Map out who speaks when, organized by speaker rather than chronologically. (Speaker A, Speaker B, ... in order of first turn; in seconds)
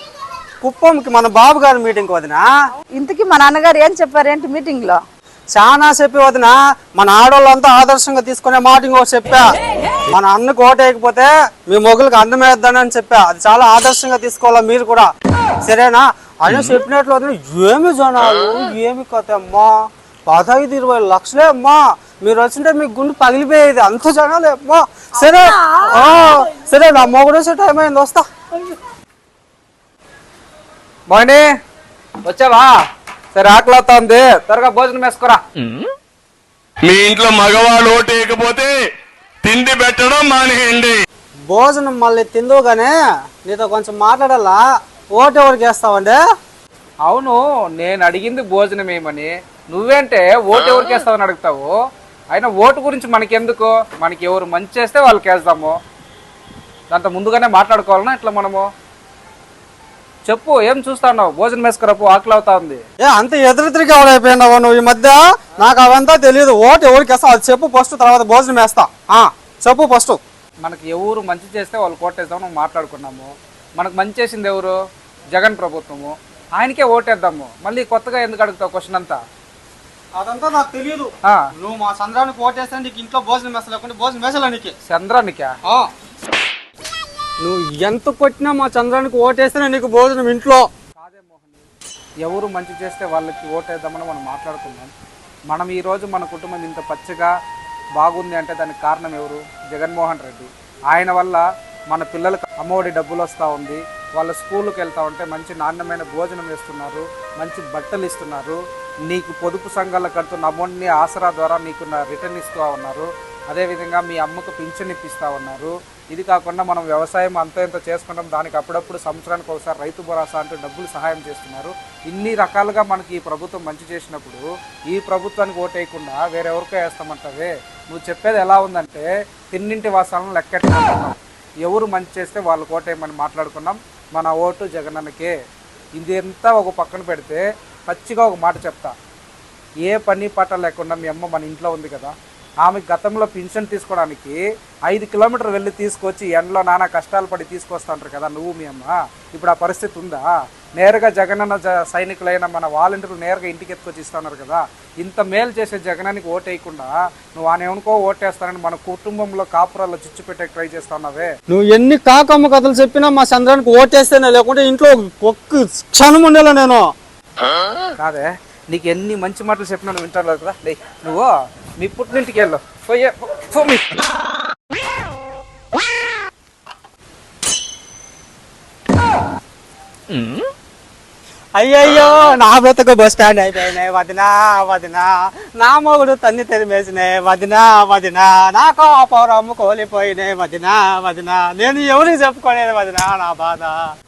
Speaker A: 0.6-2.4, 5.5-9.5, 10.1-15.1, 15.7-19.7, 20.3-28.3, 41.5-44.6, 45.1-46.2, 63.0-70.2, 80.2-84.7, 87.4-90.7, 161.5-166.9, 181.6-193.8
Speaker B: 3.0-5.0
Speaker C: 31.1-31.4, 32.2-32.7, 33.4-35.4, 47.1-51.7, 52.3-55.8, 56.9-58.7, 60.2-62.8, 70.6-74.8, 75.3-79.2, 84.9-85.5, 91.0-91.7, 92.2-94.9, 95.5-97.3, 98.0-135.3, 136.0-138.9, 139.8-144.4, 144.9-161.3, 168.0-174.0
Speaker D: 36.9-38.7, 39.4-41.0, 180.2-180.4